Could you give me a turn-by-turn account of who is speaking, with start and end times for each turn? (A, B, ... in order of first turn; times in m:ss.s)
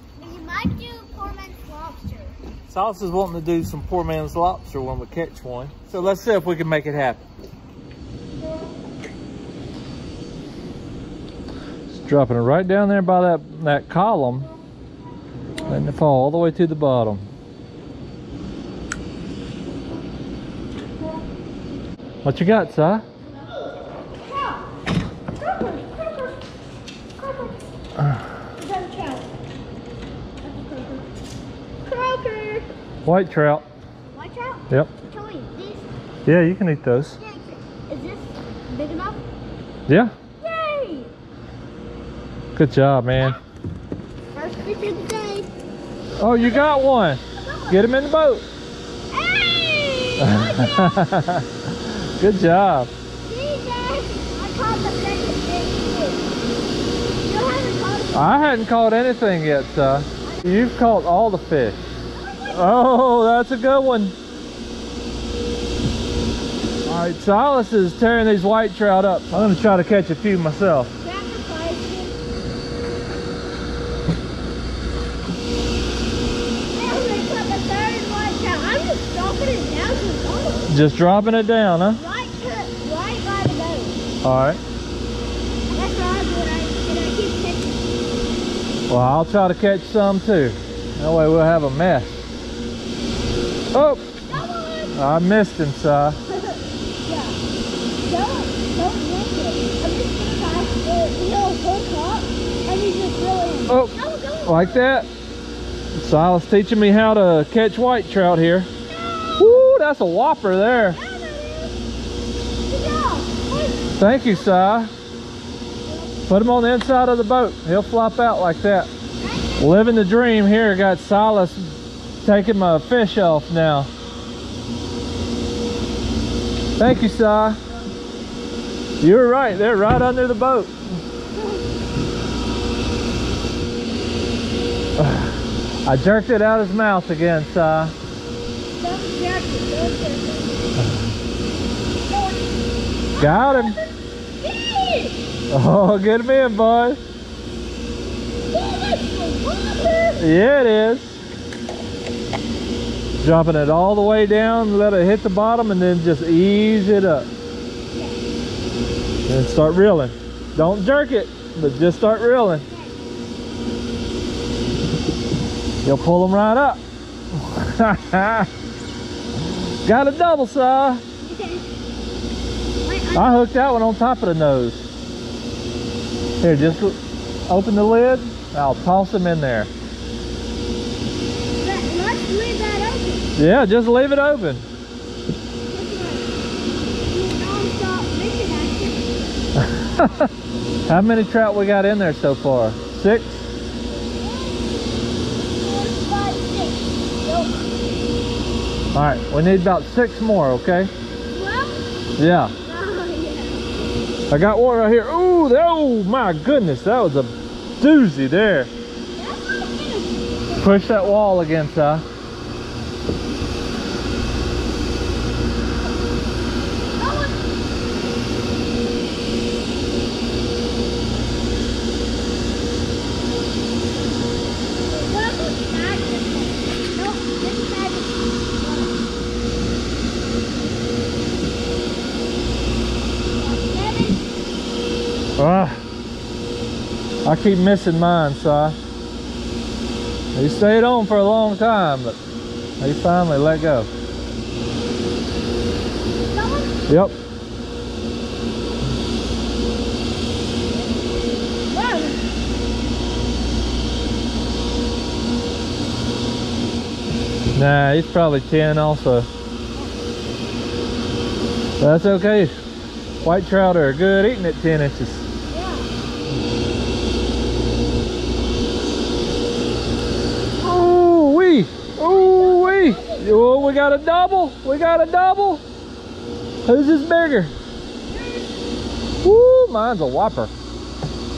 0:00.2-0:02.4 A
0:02.7-0:07.2 B
0:11.9-0:14.5 B
0:15.7-0:17.3 B
0:22.2-0:23.0 B
0:24.2-0:24.7 A
0:25.4-0:26.4 A
0:27.2-0:27.6 A
0:28.6-0:29.3 A
0:30.4-0:31.0 A
0:31.9-0:32.7 A
0:33.0-0:33.6 B
0:34.1-0:35.9 A
0:36.3-0:37.2 B
0:37.2-0:39.2 A
0:39.9-0:40.1 B
0:40.4-0:41.1 A
0:42.6-0:43.4 B
0:44.3-0:45.5 A
0:46.2-0:48.4 B
0:47.4-0:47.8 A
0:49.1-0:50.9 A
0:50.2-0:52.9 B
0:53.2-0:56.3 A
0:57.2-0:58.3 A
0:58.1-1:01.8 B
1:00.2-1:00.7 A
1:02.2-1:02.6 A
1:02.5-1:04.1 B
1:06.9-1:10.9 B
1:11.0-1:12.2 A
1:16.8-1:20.7 A
1:20.7-1:22.0 B
1:21.9-1:24.0 A
1:24.2-1:24.6 B
1:25.7-1:27.8 A
1:28.9-1:32.2 B
1:33.7-1:34.1 B
1:34.3-1:34.9 A
1:34.9-1:36.2 B
1:36.5-1:37.4 A
1:38.0-1:44.8 A
1:43.7-1:43.9 B
1:44.4-1:45.1 B
1:46.0-1:48.7 B
1:48.9-1:49.7 A
1:49.4-1:51.0 B
1:50.9-1:51.8 A
1:52.7-1:53.9 A
1:54.0-1:54.9 B
1:56.3-1:58.9 B
1:59.2-1:59.6 A
1:59.6-2:03.9 B
2:06.8-2:07.6 B
2:09.0-2:10.7 B
2:15.0-2:15.3 B
2:15.8-2:17.9 B
2:18.8-2:20.6 A
2:22.1-2:22.6 A
2:23.1-2:25.2 A
2:23.2-2:23.8 B
2:25.5-2:27.0 B
2:28.5-2:30.2 A
2:30.2-2:31.2 B
2:33.2-2:37.3 B
2:39.3-2:42.7 B
2:45.8-2:46.8 B
2:47.3-2:48.5 B
2:49.8-2:51.0 B
2:51.2-2:51.7 A
2:52.8-2:53.4 A
2:53.1-2:54.9 B
2:56.4-2:59.7 B
3:01.6-3:03.3 A
3:03.4-3:04.7 B
3:05.7-3:06.4 A
3:07.1-3:09.1 A
3:09.6-3:10.3 B
3:10.9-3:13.5 B
3:14.0-3:14.7 A
3:15.6-3:17.7 A
3:18.9-3:20.9 B
3:21.3-3:21.8 A
3:22.2-3:22.5 B
3:22.6-3:23.7 A
3:24.3-3:28.7 B
3:29.2-3:30.7 A
3:30.6-3:32.0 B
3:37.0-3:37.4 A
3:44.9-3:49.0 A
3:53.4-3:54.2 A
3:55.4-3:55.8 B
3:57.2-3:58.8 B
4:00.4-4:02.2 B
4:02.8-4:03.9 B
4:06.3-4:06.7 A
4:06.9-4:07.2 B
4:11.7-4:12.2 A
4:17.6-4:19.3 B
4:21.8-4:22.5 B
4:23.2-4:25.3 B
4:25.5-4:25.9 A
4:30.6-4:35.6 B
4:32.0-4:33.4 A
4:36.6-4:37.5 B
4:38.1-4:38.5 A
4:39.2-4:40.5 B